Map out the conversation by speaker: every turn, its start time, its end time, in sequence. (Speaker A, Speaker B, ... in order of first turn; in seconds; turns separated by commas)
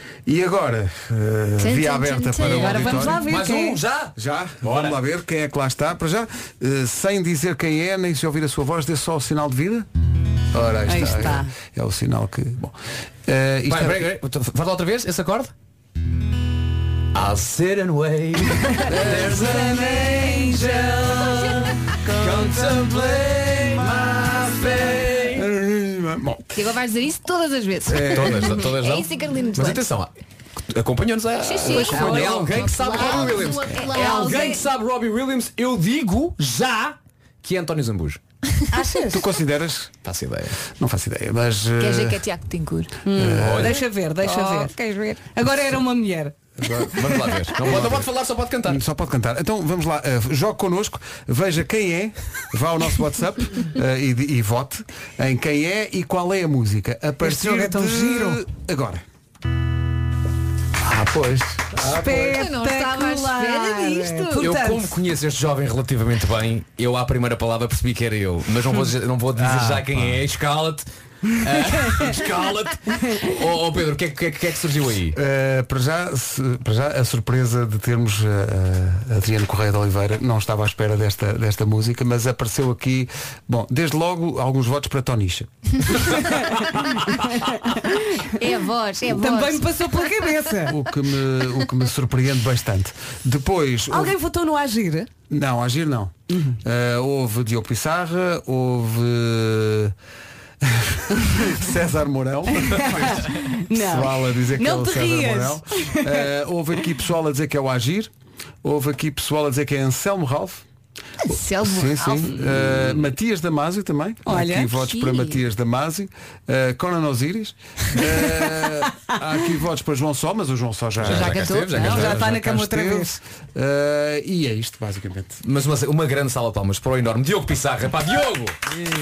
Speaker A: 0.3-3.3, Speaker B: 1.6-2.8, Speaker C: 2.5-3.8, Speaker D: 2.7-5.0, Speaker A: 4.2-9.9, Speaker A: 10.5-14.2, Speaker C: 10.9-11.5, Speaker D: 13.7-15.5, Speaker D: 17.1-25.5, Speaker A: 18.9-19.7, Speaker C: 19.3-20.9, Speaker A: 22.1-22.8, Speaker A: 25.3-26.6, Speaker B: 26.6-29.8, Speaker A: 27.9-28.5, Speaker D: 28.0-30.1, Speaker D: 30.7-38.2, Speaker B: 31.4-34.6, Speaker C: 31.8-34.6, Speaker C: 38.7-39.2, Speaker A: 39.1-39.9, Speaker D: 40.0-40.6, Speaker A: 40.8-42.2, Speaker B: 41.8-42.9, Speaker C: 43.1-46.4, Speaker A: 43.1-43.7, Speaker D: 43.4-43.8, Speaker B: 44.4-44.7, Speaker A: 46.6-47.0, Speaker D: 47.0-48.8, Speaker A: 47.6-48.1, Speaker A: 48.6-59.0, Speaker C: 57.2-58.4, Speaker A: 60.9-62.4, Speaker C: 61.9-65.0, Speaker B: 62.2-64.5, Speaker D: 64.4-75.2, Speaker A: 69.4-70.2, Speaker A: 75.1-85.5, Speaker C: 86.2-86.7, Speaker C: 87.2-88.3, Speaker B: 88.4-89.7, Speaker C: 89.1-90.8, Speaker A: 90.7-94.2, Speaker C: 93.9-95.1, Speaker A: 95.3-99.9, Speaker C: 96.3-96.6, Speaker A: 100.6-108.1, Speaker C: 102.6-106.2, Speaker A: 108.6-110.6, Speaker B: 111.3-112.4, Speaker A: 111.6-125.4, Speaker C: 114.2-114.8, Speaker B: 115.0-115.3, Speaker D: 121.0-122.2, Speaker B: 121.1-122.1, Speaker C: 121.8-123.1, Speaker D: 125.4-128.6